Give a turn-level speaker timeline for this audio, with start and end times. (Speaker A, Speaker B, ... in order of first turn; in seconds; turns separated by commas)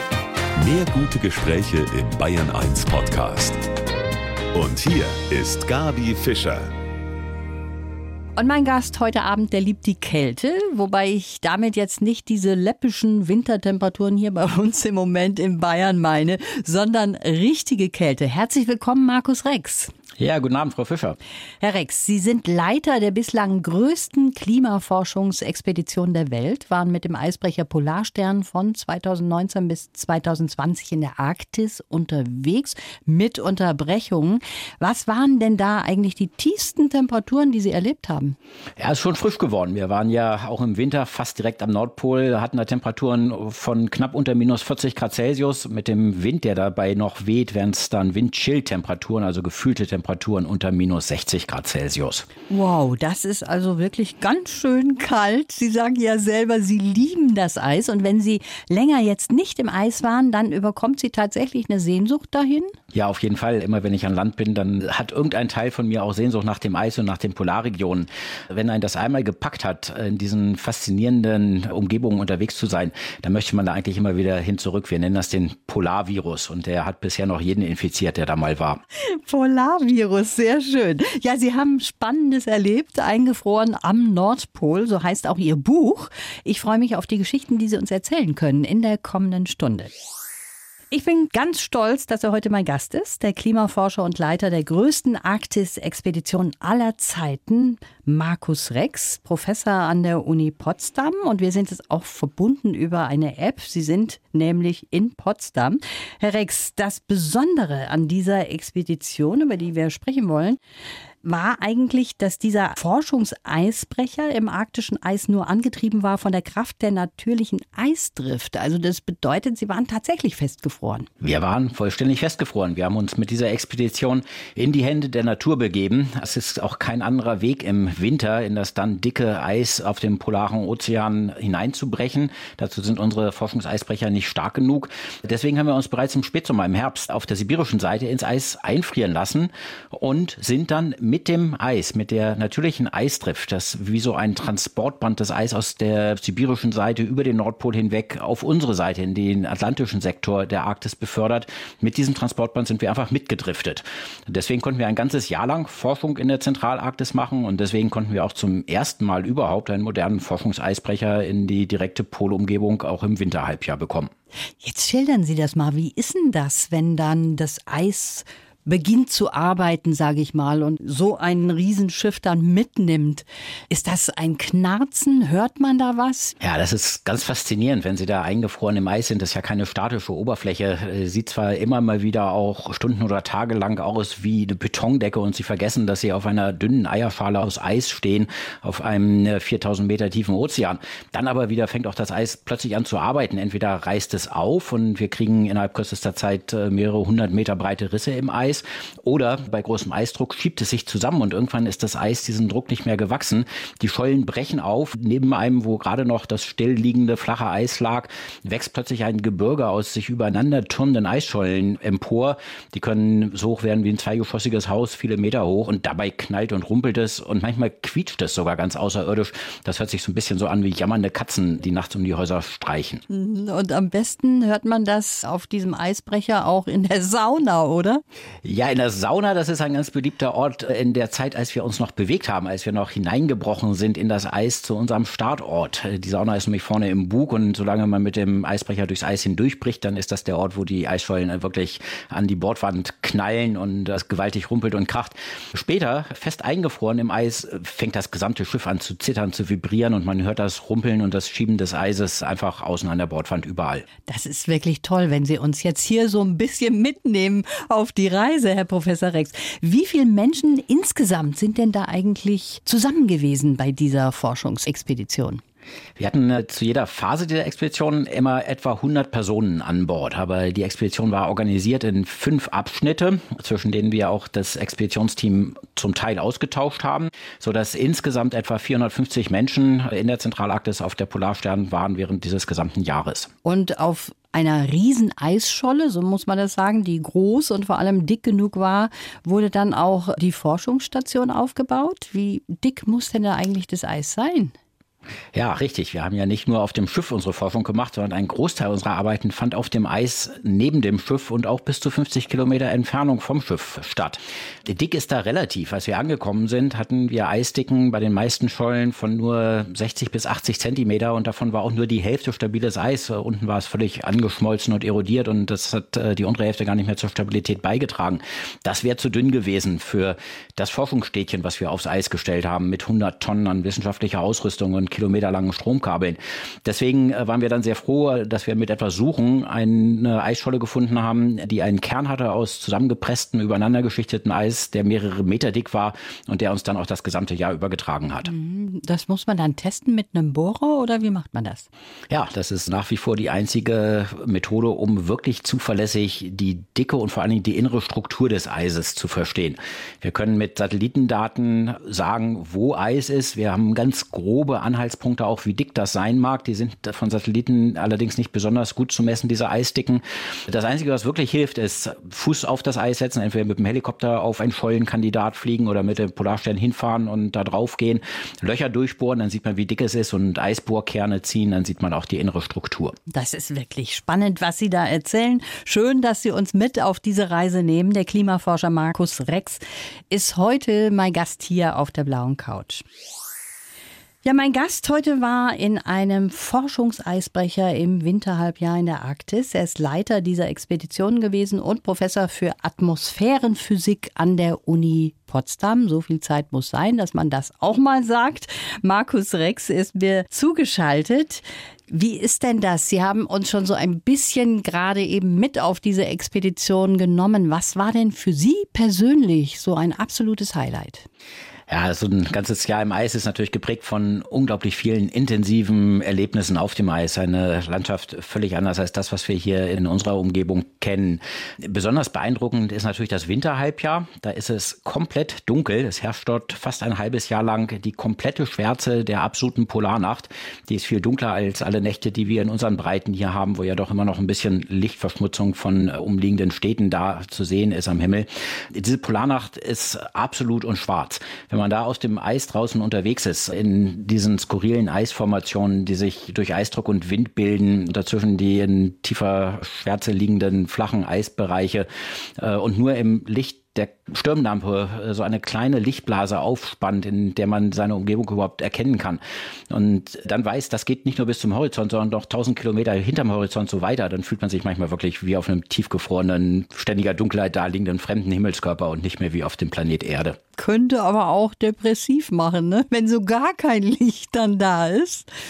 Speaker A: 0.6-3.6, Speaker A: 4.5-6.7, Speaker B: 8.4-19.9, Speaker C: 20.2-21.2, Speaker B: 21.6-38.4, Speaker C: 38.8-52.3, Speaker B: 52.5-62.7, Speaker C: 62.9-78.8, Speaker B: 79.0-89.9, Speaker B: 90.9-110.6, Speaker B: 111.2-121.1, Speaker C: 121.2-164.1, Speaker B: 164.6-176.3, Speaker C: 176.4-223.0, Speaker B: 223.1-228.0, Speaker C: 228.4-253.8, Speaker B: 254.1-265.4, Speaker C: 266.0-283.3, Speaker B: 283.4-294.5, Speaker C: 295.3-338.3, Speaker B: 338.2-341.7, Speaker C: 342.1-372.9, Speaker B: 373.1-382.8, Speaker B: 384.2-411.1, Speaker C: 411.7-470.4, Speaker B: 470.6-475.3